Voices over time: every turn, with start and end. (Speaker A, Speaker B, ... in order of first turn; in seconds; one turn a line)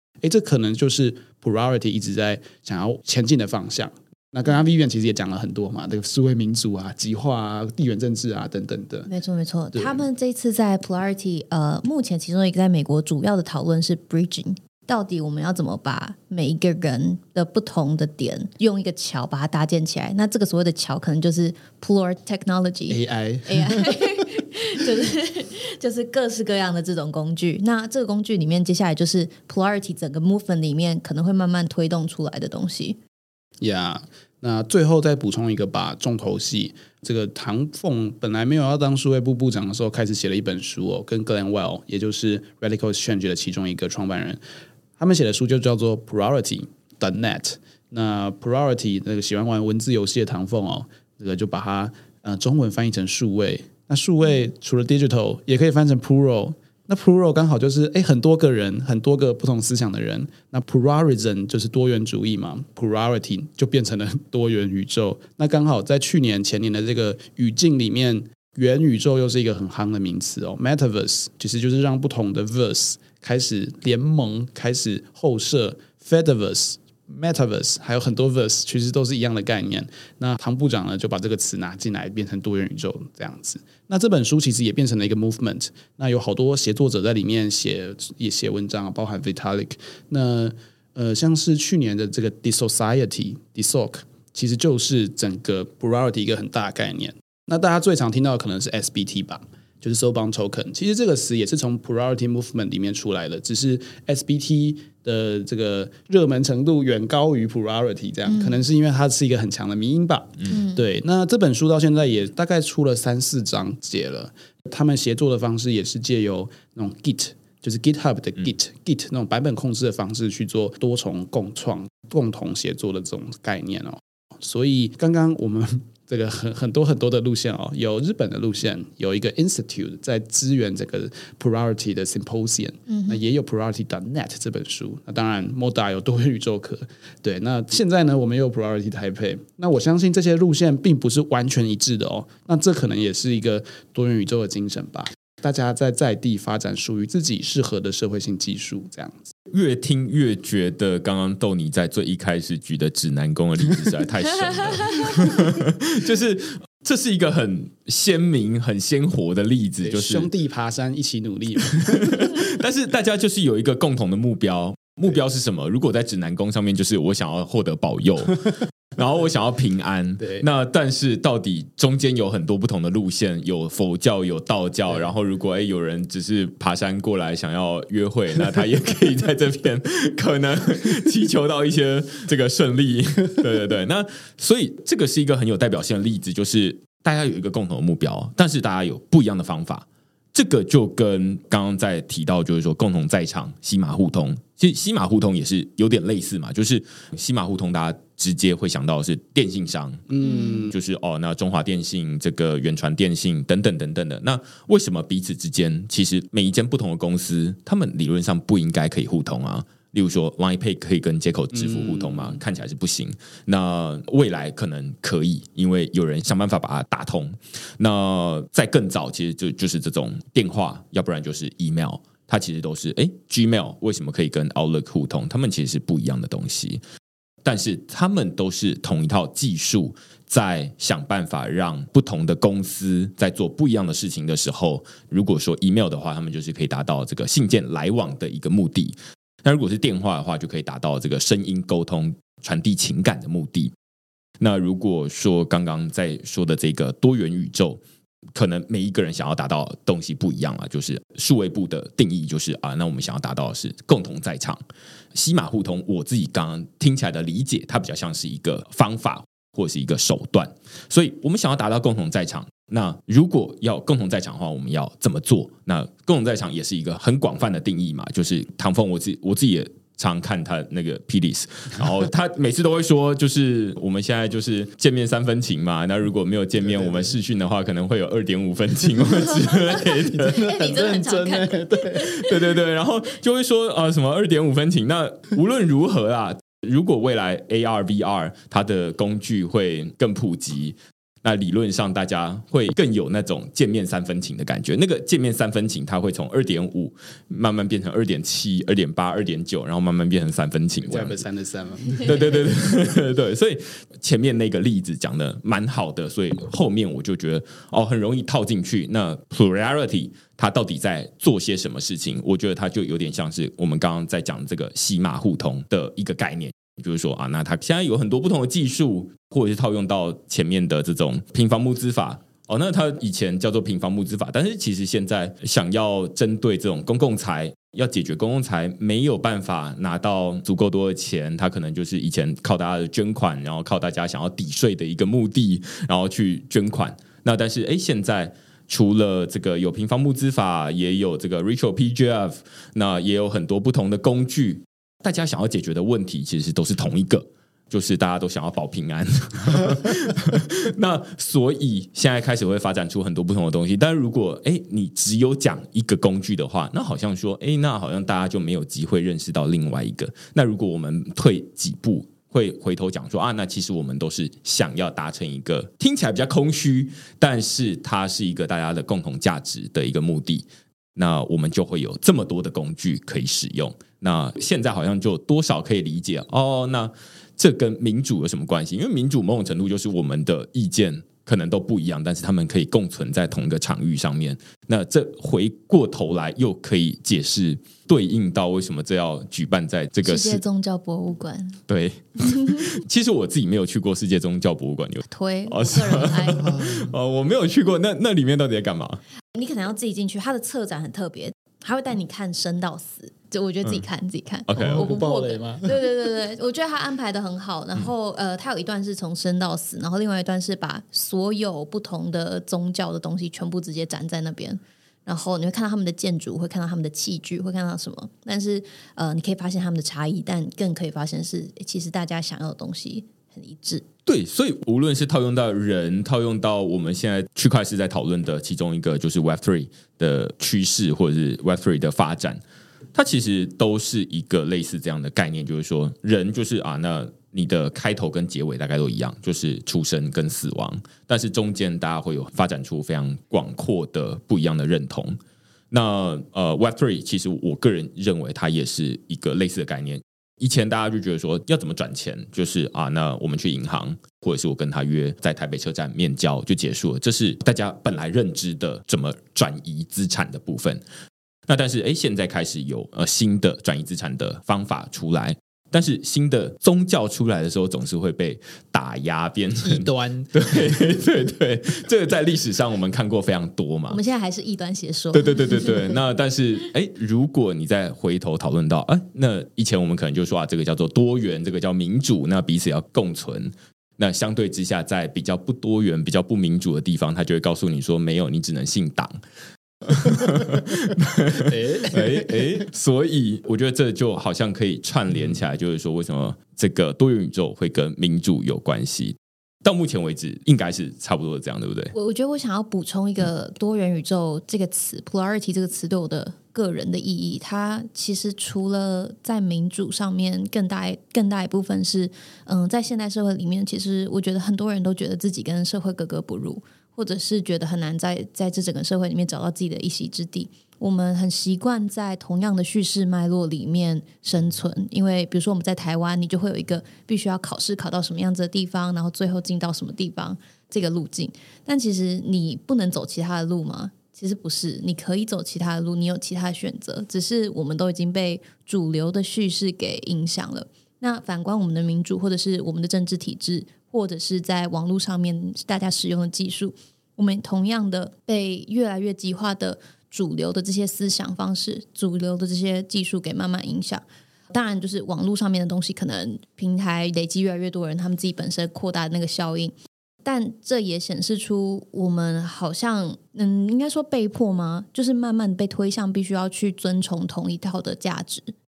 Speaker A: 0.2-9.1
Speaker B: 9.1-33.0
Speaker A: 9.7-10.0
Speaker A: 22.9-24.2
Speaker A: 33.6-44.4
Speaker A: 45.0-149.3
Speaker B: 108.2-108.6
Speaker B: 110.5-110.8
Speaker B: 132.9-133.2
Speaker C: 149.5-160.3
Speaker A: 159.8-162.3
Speaker C: 161.8-226.8
Speaker A: 200.1-200.7
Speaker B: 200.2-200.7
Speaker A: 211.5-212.4
Speaker C: 227.4-243.7
Speaker C: 244.4-247.8
Speaker C: 248.3-254.6
Speaker C: 255.1-280.4
Speaker A: 280.1-282.2
Speaker B: 280.2-282.2
Speaker C: 281.9-301.2
Speaker A: 300.8-302.4
Speaker C: 302.0-390.4
Speaker B: 390.0-391.6
Speaker C: 391.7-399.0
Speaker B: 395.1-396.4
Speaker A: 396.5-396.8
Speaker B: 399.3-423.8
Speaker C: 404.5-405.0
Speaker A: 404.6-405.8
Speaker C: 424.1-432.4
Speaker C: 432.9-445.2
Speaker C: 445.7-460.8
Speaker C: 461.5-474.0
Speaker A: 469.6-470.3
Speaker B: 473.9-476.0
Speaker C: 475.1-489.1
Speaker C: 489.8-501.9
Speaker A: 491.4-492.6
Speaker B: 501.9-568.5